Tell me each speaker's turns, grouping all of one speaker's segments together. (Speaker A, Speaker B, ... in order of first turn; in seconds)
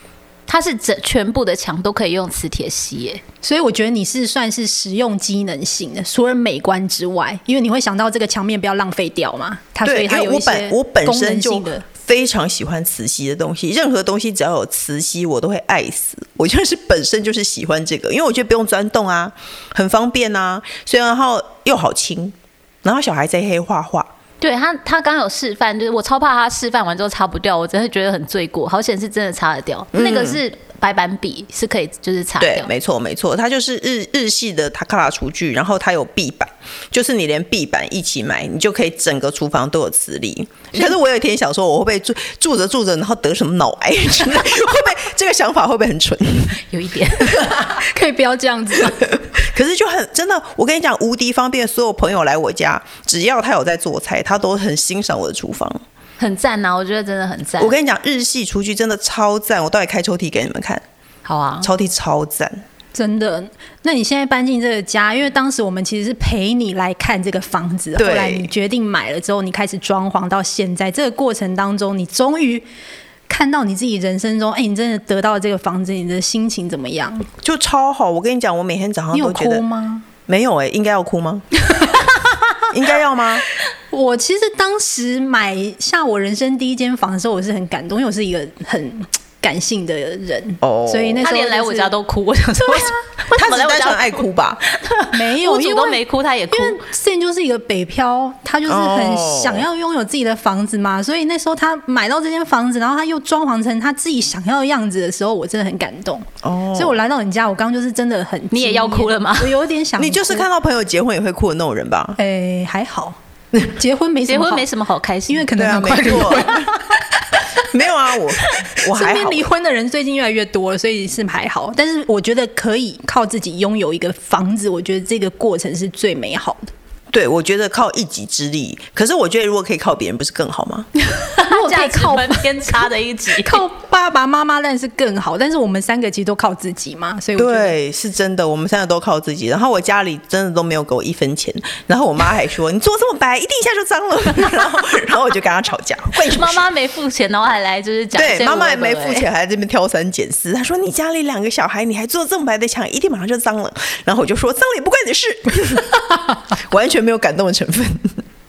Speaker A: 0.5-3.2, 24.4-32.7, 46.7-47.5, 56.2-57.8, 61.2-61.7, 91.2-96.8, 108.5-109.5, 114.3-116.4, 131.0-133.6, 146.1-149.3
Speaker B: 3.4-11.8, 47.3-49.1, 62.9-72.6, 73.3-77.3, 79.1-80.0, 83.9-91.9, 95.1-110.5, 112.2-114.7, 115.3-117.0, 118.8-126.7, 131.4-137.7
Speaker C: 9.8-24.1, 29.9-30.4, 32.4-46.6, 49.0-55.8, 57.6-60.8, 61.6-62.6, 68.0-68.5, 77.4-79.6, 80.2-81.4, 82.7-83.4, 90.6-91.2, 93.3-94.6, 98.7-99.7, 106.4-107.0, 110.0-112.2, 115.5-116.9, 117.6-119.5, 127.1-130.9, 137.4-146.7, 148.1-158.2